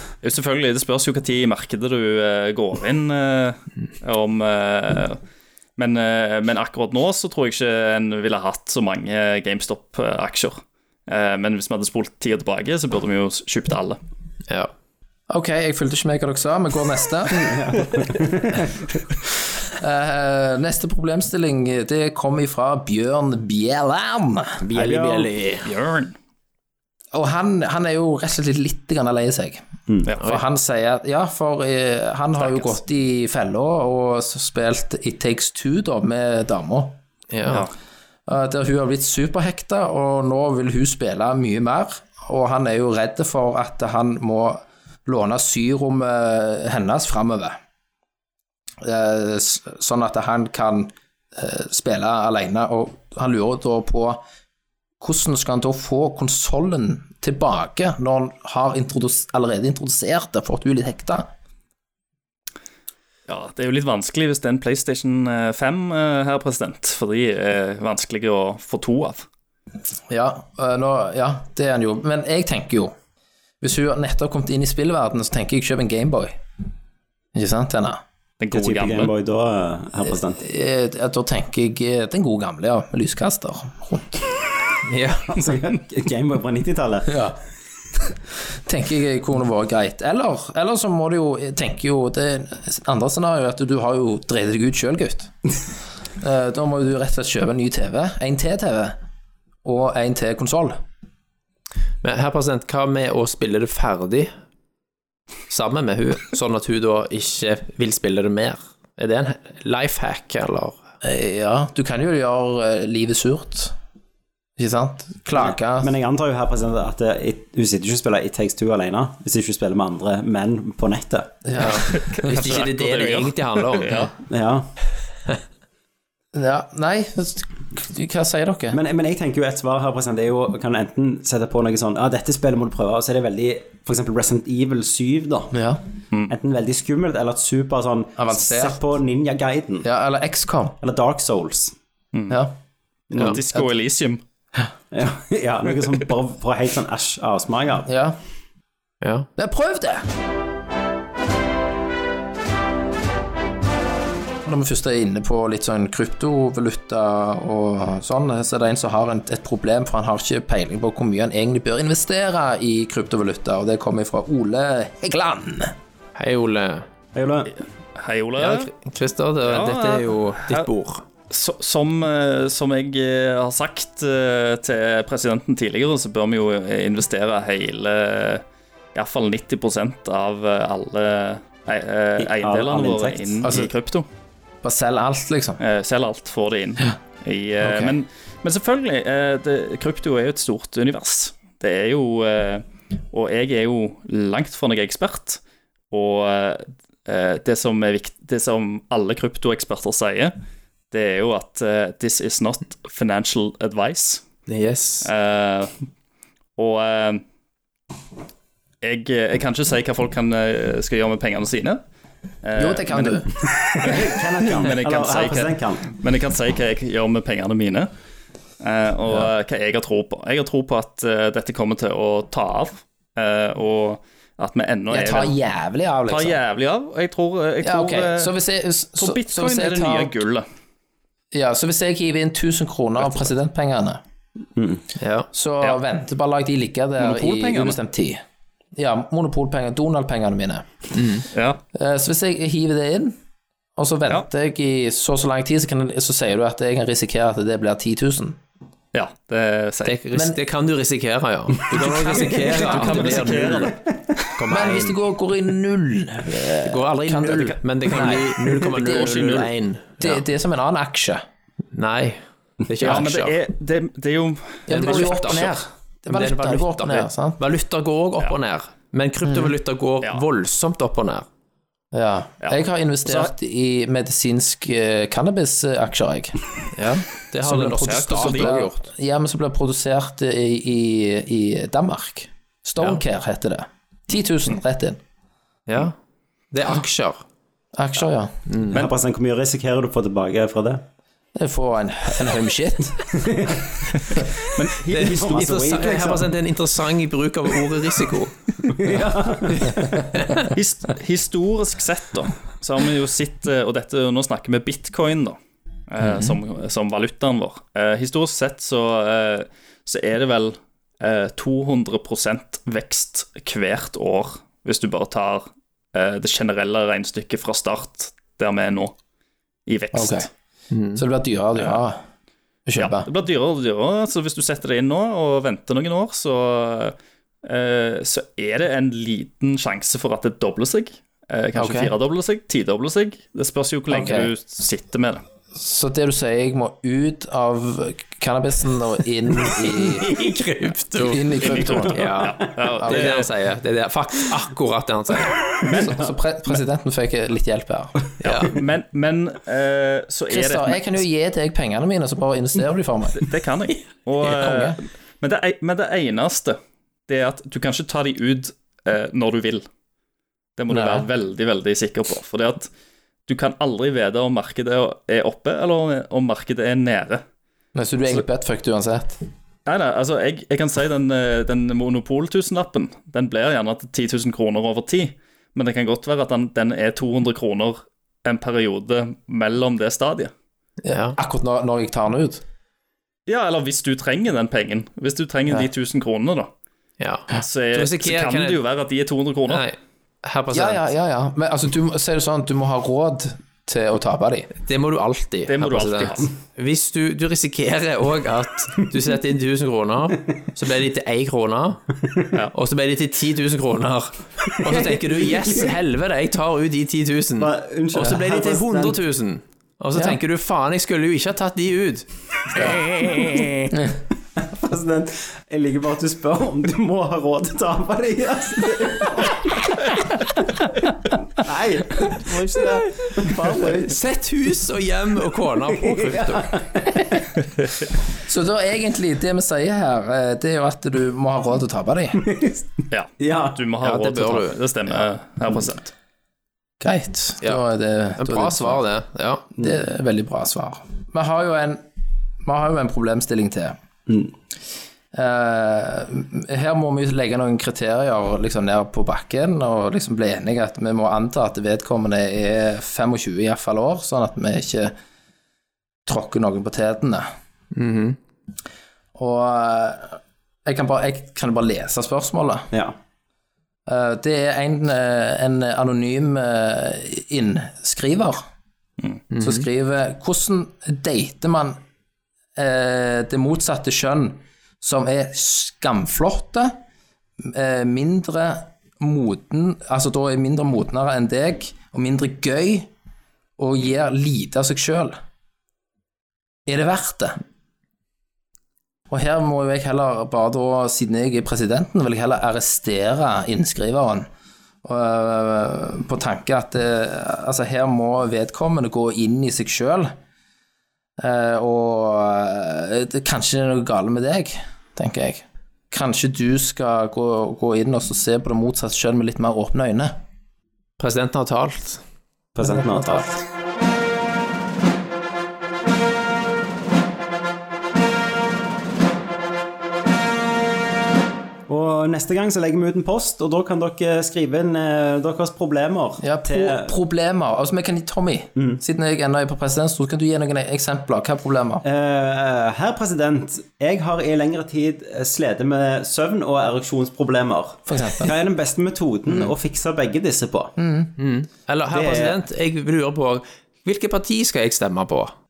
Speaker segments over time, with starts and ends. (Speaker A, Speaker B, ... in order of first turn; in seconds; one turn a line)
Speaker A: 0.2-5.2
Speaker A: 5.8-14.0
Speaker B: 15.3-17.7
Speaker C: 17.4-18.7
Speaker B: 19.7-24.6
Speaker D: 24.6-25.7
Speaker C: 24.7-25.3
Speaker A: 25.6-26.1
Speaker B: 27.1-29.7
Speaker B: 30.2-37.0
Speaker D: 37.3-37.7
Speaker B: 38.3-47.6
Speaker B: 48.8-54.2
Speaker B: 55.0-61.3
Speaker A: 63.3-69.2
Speaker B: 70.1-72.9
Speaker B: 73.6-76.4
Speaker B: 77.3-78.0
Speaker A: 78.4-79.1
Speaker C: 78.5-80.4
Speaker B: 80.4-84.2
Speaker D: 84.8-85.4
Speaker C: 85.3-87.2
Speaker B: 87.1-87.4
Speaker B: 88.0-95.3
Speaker B: 96.2-98.9
Speaker B: 99.6-100.8
Speaker D: 102.0-104.3
Speaker D: 105.5-110.8
Speaker B: 111.0-113.7
Speaker B: 114.6-115.9
Speaker C: 115.3-121.3
Speaker B: 121.5-122.4
Speaker D: 121.6-124.1
Speaker A: 121.9-124.1
Speaker C: 124.3-124.7
Speaker B: 126.3-128.8
Speaker C: 128.7-135.5
Speaker B: 135.5-135.8
Speaker C: 136.3-139.8
Speaker B: 138.2-138.8
Speaker B: 139.8-140.8
Speaker C: 140.8-141.7
Speaker A: 142.1-142.4
Speaker C: 143.1-143.4
Speaker A: 143.2-144.2
Speaker B: 143.2-143.7
Speaker C: 144.9-147.9
Speaker B: 147.9-148.2
Speaker D: 149.0-149.3
Speaker B: 149.4-150.0
Speaker B: 154.4-165.7
Speaker D: 166.2-166.8
Speaker C: 167.1-167.5
Speaker A: 168.0-168.7
Speaker D: 168.4-171.0
Speaker A: 169.4-170.7
Speaker A: 171.3-178.4
Speaker A: 178.9-184.1
Speaker C: 182.2-183.4
Speaker B: 183.4-183.7
Speaker B: 184.6-185.6
Speaker A: 185.6-200.3
Speaker B: 187.6-187.9
Speaker A: 200.9-204.2
Speaker D: 204.5-205.1
Speaker A: 205.0-205.7
Speaker A: 206.6-207.2
Speaker A: 208.8-211.8
Speaker A: 212.4-213.2
Speaker B: 212.6-213.3
Speaker C: 213.4-215.9
Speaker A: 213.8-217.9
Speaker A: 218.6-225.3
Speaker B: 224.9-226.4
Speaker A: 226.1-228.3
Speaker B: 227.6-230.1
Speaker A: 229.0-230.4
Speaker B: 231.3-234.0
Speaker C: 234.6-234.8
Speaker D: 235.0-235.3
Speaker B: 235.3-238.2
Speaker A: 237.0-237.8
Speaker B: 238.8-243.1
Speaker D: 240.9-241.2
Speaker A: 241.3-241.6
Speaker B: 243.8-248.4
Speaker A: 248.9-250.0
Speaker D: 249.8-253.8
Speaker B: 251.8-253.2
Speaker C: 252.1-252.5
Speaker A: 252.4-253.7
Speaker C: 253.6-253.9
Speaker D: 254.3-255.0
Speaker B: 254.5-259.3
Speaker D: 256.6-260.2
Speaker A: 258.7-259.5
Speaker B: 260.0-261.2
Speaker D: 261.7-263.3
Speaker A: 262.8-265.6
Speaker B: 264.7-267.4
Speaker D: 264.7-265.5
Speaker D: 266.1-271.3
Speaker B: 271.9-276.4
Speaker A: 272.4-273.3
Speaker D: 276.7-278.7
Speaker B: 277.4-285.0
Speaker A: 277.8-278.6
Speaker D: 285.7-285.9
Speaker D: 286.5-287.2
Speaker B: 287.7-288.3
Speaker D: 288.5-288.8
Speaker C: 288.7-290.8
Speaker B: 291.4-293.2
Speaker C: 293.1-293.6
Speaker B: 294.0-294.4
Speaker A: 294.5-295.8
Speaker D: 294.9-298.7
Speaker C: 294.9-296.3
Speaker C: 298.7-299.7
Speaker D: 299.6-300.4
Speaker A: 300.5-305.4
Speaker A: 305.9-318.9
Speaker B: 306.0-306.3
Speaker A: 319.7-320.3
Speaker B: 319.9-320.3
Speaker D: 320.7-321.0
Speaker B: 320.9-322.0
Speaker B: 322.7-323.1
Speaker A: 322.8-335.2
Speaker B: 331.6-331.9
Speaker B: 333.9-334.3
Speaker B: 335.5-340.2
Speaker D: 339.6-345.4
Speaker B: 341.0-342.2
Speaker A: 341.4-343.3
Speaker B: 342.8-343.1
Speaker A: 345.6-346.0
Speaker B: 345.7-348.1
Speaker D: 348.2-348.5
Speaker A: 348.2-351.0
Speaker B: 350.3-353.2
Speaker A: 353.2-359.6
Speaker B: 354.2-354.8
Speaker A: 360.6-362.7
Speaker B: 360.7-361.0
Speaker A: 363.3-367.2
Speaker B: 367.7-369.2
Speaker A: 369.6-380.3
Speaker D: 380.8-381.2
Speaker B: 381.1-382.4
Speaker A: 383.3-386.5
Speaker D: 387.0-388.6
Speaker A: 387.3-389.7
Speaker D: 389.5-390.9
Speaker B: 390.5-394.5
Speaker D: 394.6-401.8
Speaker A: 395.5-396.3
Speaker D: 402.5-413.4
Speaker C: 404.6-405.7
Speaker C: 407.4-409.0
Speaker B: 412.6-412.8
Speaker B: 413.7-414.0
Speaker C: 414.4-419.6
Speaker C: 421.4-423.9
Speaker D: 423.7-426.5
Speaker C: 425.8-426.8
Speaker B: 428.2-432.3
Speaker C: 432.2-432.6
Speaker A: 432.9-435.9
Speaker C: 433.2-433.6
Speaker D: 433.8-435.0
Speaker B: 436.8-438.8
Speaker D: 438.2-439.5
Speaker B: 439.6-441.8
Speaker B: 442.4-443.8
Speaker B: 445.1-454.9
Speaker B: 456.1-457.3
Speaker D: 457.7-458.2
Speaker B: 459.1-462.7
Speaker B: 463.9-468.4
Speaker D: 469.3-469.7
Speaker B: 469.4-471.8
Speaker B: 472.6-476.7
Speaker B: 477.4-482.9
Speaker B: 483.6-485.1
Speaker B: 486.6-487.4
Speaker B: 489.1-494.3
Speaker B: 494.8-500.1
Speaker B: 501.2-510.1
Speaker D: 511.0-512.0
Speaker C: 512.5-513.3
Speaker B: 512.6-513.3
Speaker C: 521.7-526.9
Speaker B: 526.2-531.8
Speaker C: 531.8-540.7
Speaker B: 537.9-538.3
Speaker B: 540.8-541.1
Speaker D: 541.2-545.3
Speaker C: 541.9-542.4